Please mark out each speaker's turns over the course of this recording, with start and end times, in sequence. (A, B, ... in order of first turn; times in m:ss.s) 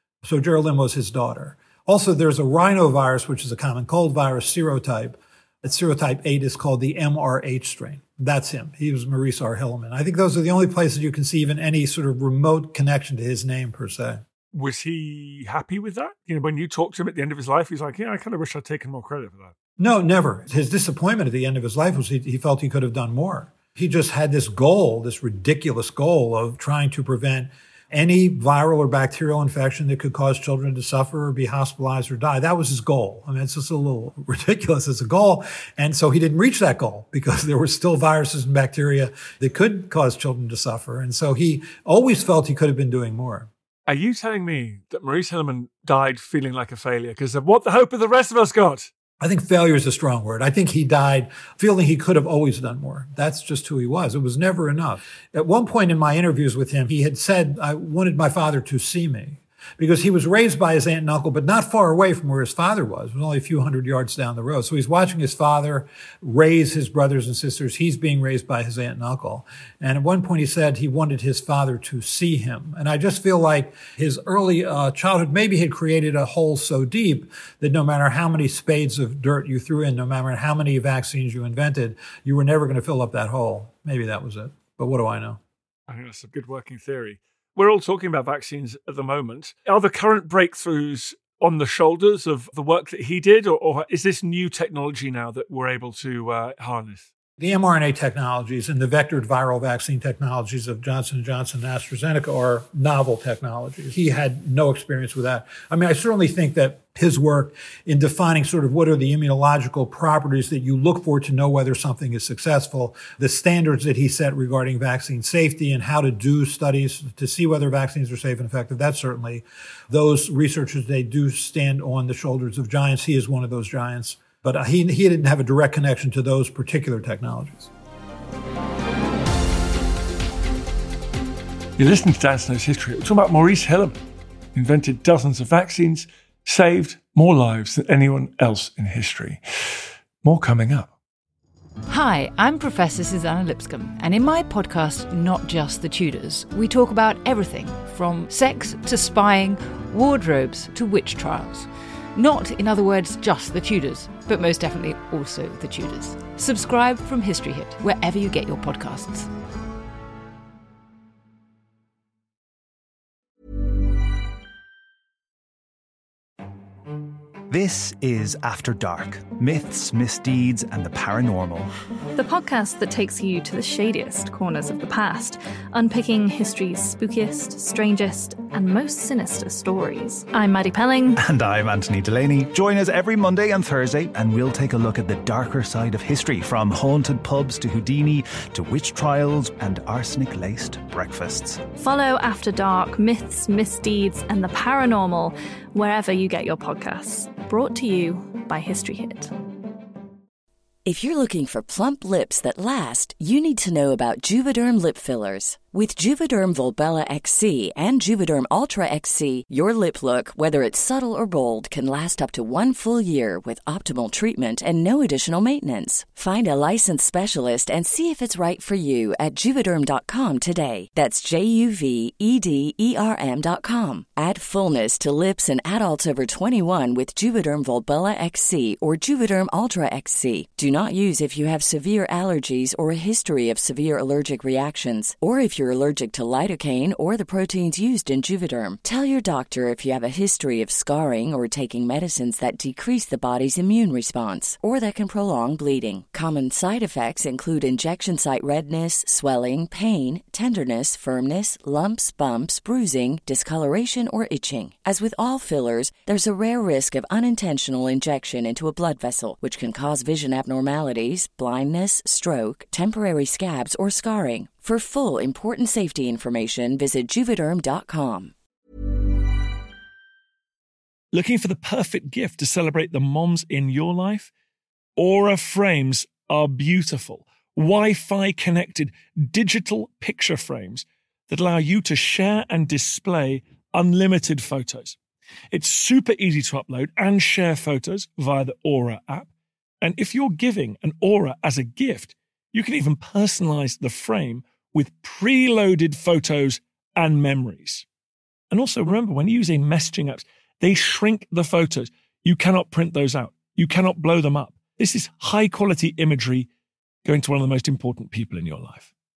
0:00.2-0:14.2 A
0:14.5-0:19.6 B
0:19.8-0:43.5 A
0:43.9-0:48.9 B
0:49.2-1:25.4 A
1:25.9-1:37.1 B
1:37.4-2:07.7 A
2:11.8-2:14.0 B
2:14.5-2:20.9 B
2:21.9-2:39.3 C
2:47.5-2:51.7 D
2:52.2-3:01.2 E
3:01.2-3:11.6 D
3:11.8-3:19.3 E
3:20.9-4:28.3 F
4:31.1-4:34.3 B
4:35.0-4:45.0 B
4:45.5-4:49.3 B
4:49.8-4:57.9 B
4:58.5-5:06.5 B
5:07.0-5:08.9 B